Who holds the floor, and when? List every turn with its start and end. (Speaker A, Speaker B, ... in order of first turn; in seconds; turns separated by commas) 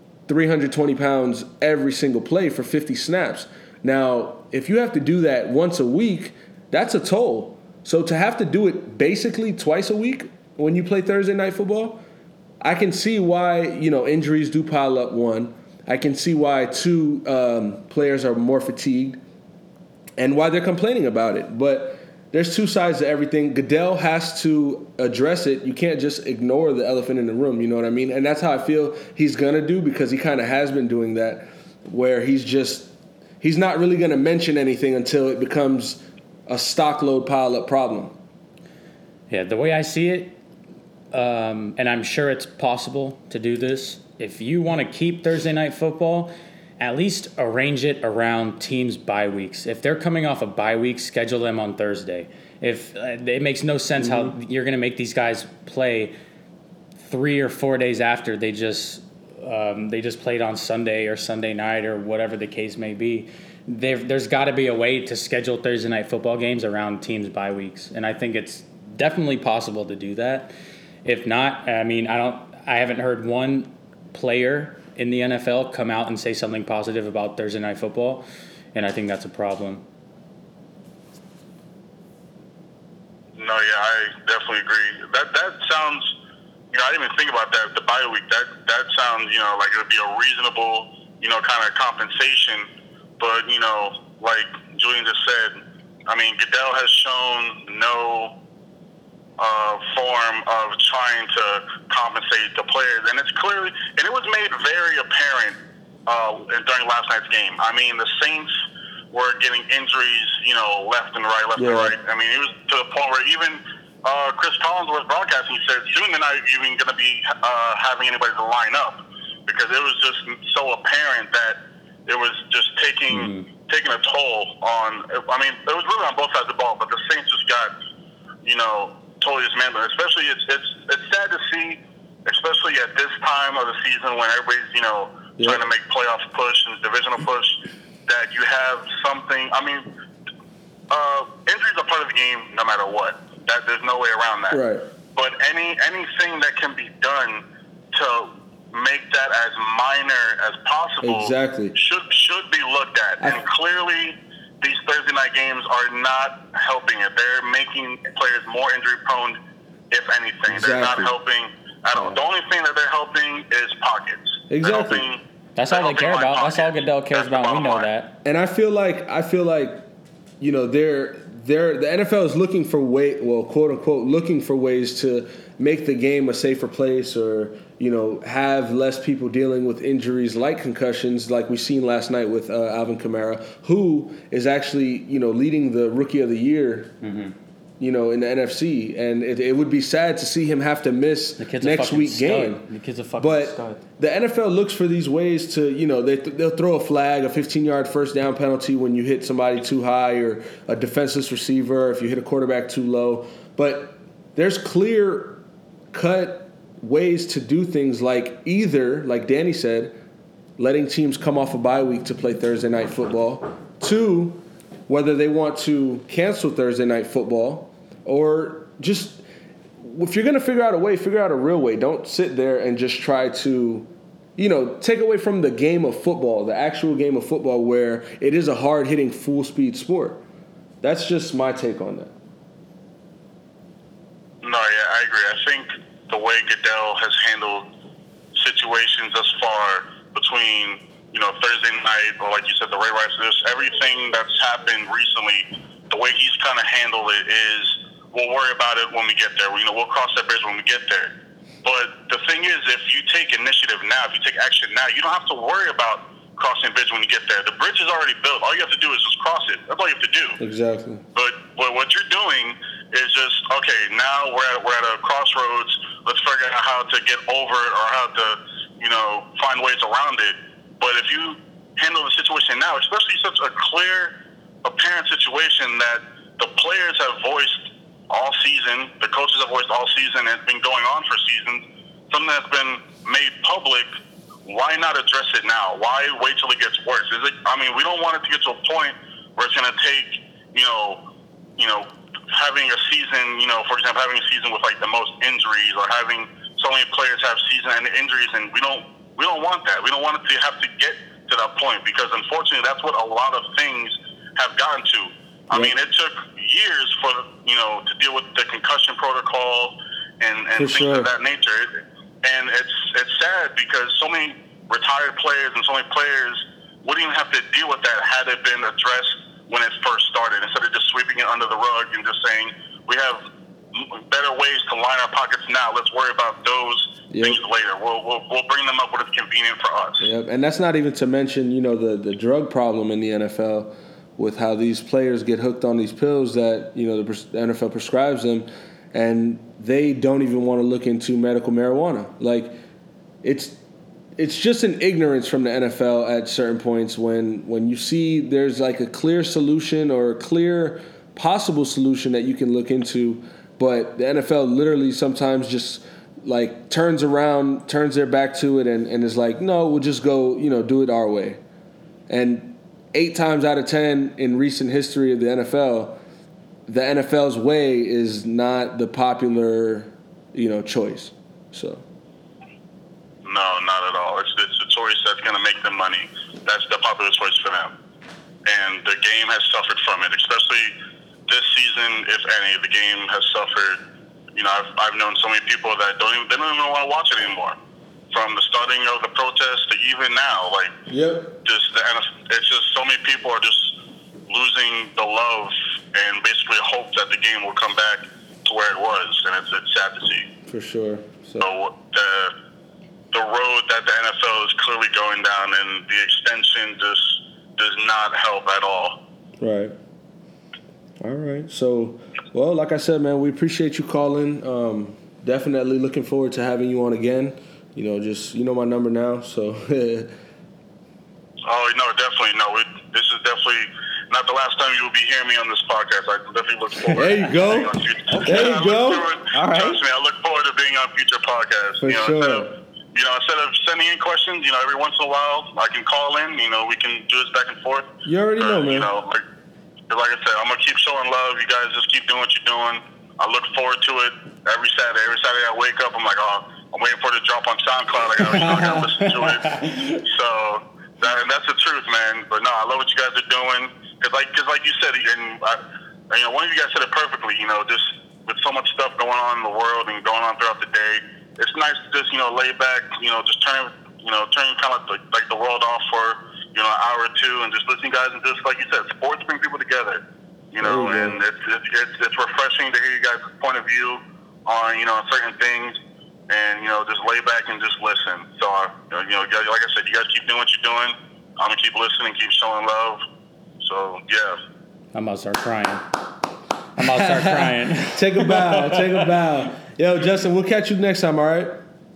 Speaker A: 0.3-12.0, Speaker A: 12.6-19.2, Speaker A: 20.2-38.1, Speaker B: 39.3-40.4, Speaker B: 41.1-56.1, Speaker A: 54.0-54.3, Speaker B: 57.0-70.5, Speaker B: 71.0-79.8, Speaker C: 83.4-86.1, Speaker C: 86.7-92.7, Speaker C: 93.2-98.3, Speaker C: 99.4-108.5, Speaker C: 109.1-127.7, Speaker A: 111.6-112.0, Speaker B: 123.1-123.5, Speaker C: 128.4-137.6, Speaker A: 135.4-135.6, Speaker C: 138.1-139.9, Speaker C: 140.9-144.6, Speaker A: 144.5-144.8, Speaker C: 145.2-159.4, Speaker A: 151.0-151.8, Speaker C: 159.9-167.9, Speaker A: 160.5-161.1, Speaker A: 164.5-165.1, Speaker B: 165.6-168.2, Speaker A: 168.2-169.9, Speaker A: 170.4-187.0, Speaker B: 187.0-187.3, Speaker A: 187.8-210.0, Speaker B: 191.4-193.8, Speaker A: 210.6-219.2, Speaker A: 219.8-230.2, Speaker A: 230.8-232.1, Speaker C: 234.4-237.7, Speaker C: 238.4-251.1, Speaker C: 251.6-260.4, Speaker A: 260.4-261.0, Speaker C: 261.2-283.9, Speaker C: 284.4-291.0, Speaker C: 291.6-311.7, Speaker A: 310.6-311.1, Speaker C: 312.2-330.0, Speaker A: 327.1-327.4, Speaker A: 330.0-342.6, Speaker A: 343.2-343.6, Speaker A: 344.2-361.4, Speaker A: 362.1-366.0, Speaker A: 366.7-371.9, Speaker C: 373.2-377.7, Speaker C: 378.5-380.7, Speaker C: 381.3-383.8, Speaker C: 384.3-387.6, Speaker C: 388.1-390.7, Speaker A: 390.9-391.4, Speaker C: 391.4-393.7, Speaker C: 394.3-400.3, Speaker A: 400.5-401.5, Speaker C: 401.4-402.3, Speaker C: 403.1-409.0, Speaker A: 409.4-409.8, Speaker A: 411.0-420.1, Speaker C: 421.5-439.2, Speaker A: 426.9-429.6, Speaker B: 428.1-428.6, Speaker B: 429.3-429.8, Speaker A: 431.8-432.5, Speaker A: 438.1-438.9, Speaker C: 439.9-475.8, Speaker B: 448.2-450.0, Speaker A: 448.3-448.9, Speaker A: 470.6-471.2, Speaker C: 476.3-483.0, Speaker C: 483.6-484.4, Speaker B: 484.9-486.0, Speaker B: 486.8-489.1, Speaker A: 486.8-491.6